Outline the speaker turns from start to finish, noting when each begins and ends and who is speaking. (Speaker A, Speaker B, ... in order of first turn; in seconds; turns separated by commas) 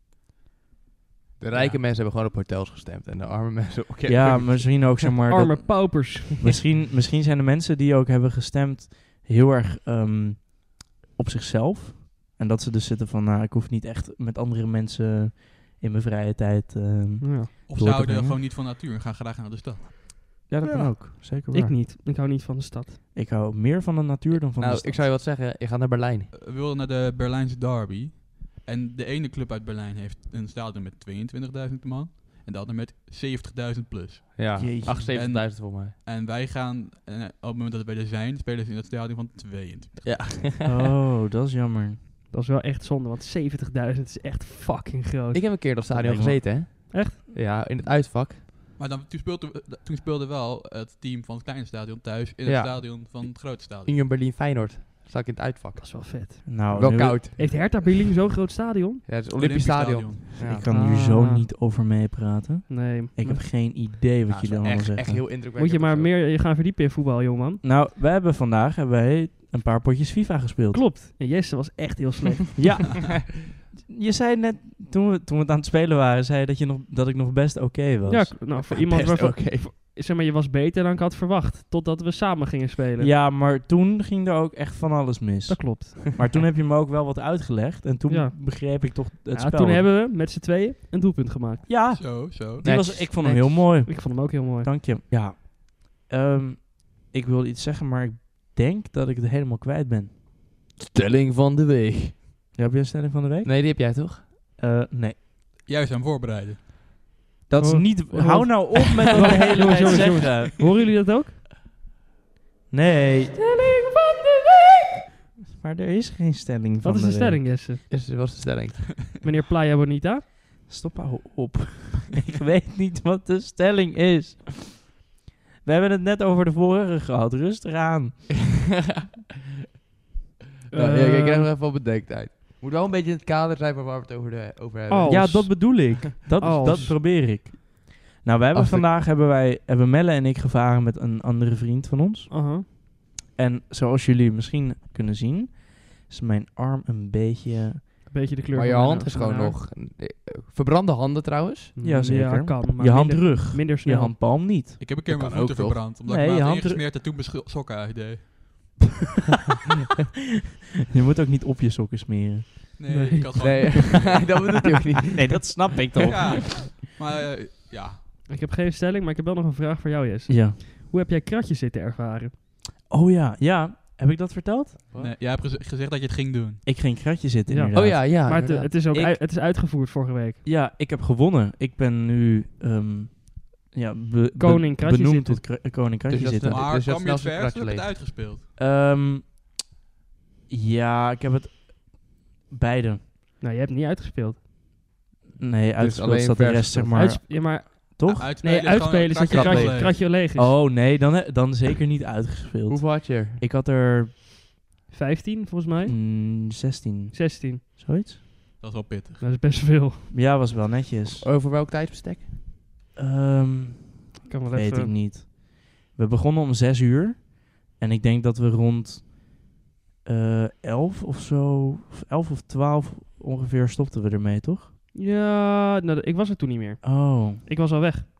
Speaker A: 1.4-5.1, Speaker B: 4.0-18.4, Speaker C: 5.3-6.5, Speaker C: 17.2-17.5, Speaker D: 17.7-19.9, Speaker B: 20.5-21.8, Speaker C: 20.6-23.0, Speaker B: 23.1-25.1, Speaker A: 24.6-26.3, Speaker D: 26.3-40.2, Speaker A: 34.3-35.9, Speaker B: 34.6-35.1, Speaker A: 40.0-40.9, Speaker B: 40.6-42.0, Speaker C: 42.3-45.6, Speaker A: 45.3-48.4, Speaker B: 45.9-46.4, Speaker C: 46.9-47.2, Speaker D: 48.8-53.9, Speaker A: 52.4-57.6, Speaker C: 55.8-59.0, Speaker B: 56.4-57.2, Speaker A: 59.0-60.7, Speaker D: 59.3-60.4, Speaker B: 60.4-65.2, Speaker C: 60.7-61.5, Speaker C: 62.7-63.4, Speaker A: 64.3-66.1, Speaker C: 65.5-67.6, Speaker B: 67.6-70.8, Speaker C: 70.7-72.7, Speaker B: 72.5-78.3, Speaker C: 78.0-83.1, Speaker A: 78.5-79.7, Speaker B: 83.0-89.9, Speaker C: 85.5-86.2, Speaker C: 88.1-91.7, Speaker B: 91.7-100.1, Speaker D: 91.9-92.9, Speaker A: 92.6-93.7, Speaker C: 93.8-94.7, Speaker A: 100.9-102.2, Speaker B: 102.5-103.5, Speaker A: 103.4-104.2, Speaker B: 104.6-105.2, Speaker D: 105.7-106.6, Speaker B: 107.5-110.7, Speaker C: 107.6-111.4, Speaker A: 109.2-110.0, Speaker B: 112.7-113.3, Speaker C: 113.3-114.8, Speaker B: 115.5-117.5, Speaker C: 116.8-117.8, Speaker A: 117.9-119.2, Speaker C: 119.2-120.2, Speaker B: 120.7-125.0, Speaker B: 125.6-128.3, Speaker C: 130.7-131.5, Speaker A: 130.7-136.9, Speaker C: 134.9-136.9, Speaker B: 135.1-142.3, Speaker A: 138.5-138.9, Speaker C: 142.3-142.6, Speaker B: 143.3-147.9, Speaker C: 148.1-149.6, Speaker A: 148.5-151.8, Speaker C: 151.8-154.1, Speaker B: 151.8-154.8, Speaker D: 154.8-158.8, Speaker A: 155.1-155.8, Speaker B: 156.0-156.8, Speaker B: 160.9-162.8, Speaker D: 162.8-164.3, Speaker C: 162.9-163.3, Speaker A: 163.4-166.1, Speaker B: 165.1-166.6, Speaker D: 166.1-168.0, Speaker C: 168.3-172.3, Speaker B: 170.3-170.6, Speaker B: 172.9-174.8, Speaker D: 174.9-176.6, Speaker B: 176.6-178.3, Speaker C: 177.5-180.4, Speaker A: 177.7-178.7, Speaker B: 178.9-179.2, Speaker B: 180.4-186.6, Speaker C: 184.4-185.5, Speaker A: 186.1-187.9, Speaker D: 186.4-188.4, Speaker B: 188.6-189.3, Speaker B: 190.5-193.0, Speaker C: 193.4-194.4, Speaker B: 195.4-198.3, Speaker A: 195.8-197.0, Speaker C: 196.9-200.5, Speaker D: 198.1-200.0, Speaker A: 199.3-199.8, Speaker B: 200.3-204.1, Speaker A: 202.7-203.4, Speaker C: 204.9-206.0, Speaker B: 205.8-208.2, Speaker C: 207.1-207.6, Speaker D: 208.6-209.2, Speaker C: 209.2-210.0, Speaker B: 210.1-211.3, Speaker A: 211.2-212.3, Speaker B: 212.9-219.5, Speaker C: 214.3-214.9, Speaker B: 220.0-224.7, Speaker C: 224.9-228.1, Speaker B: 226.8-227.4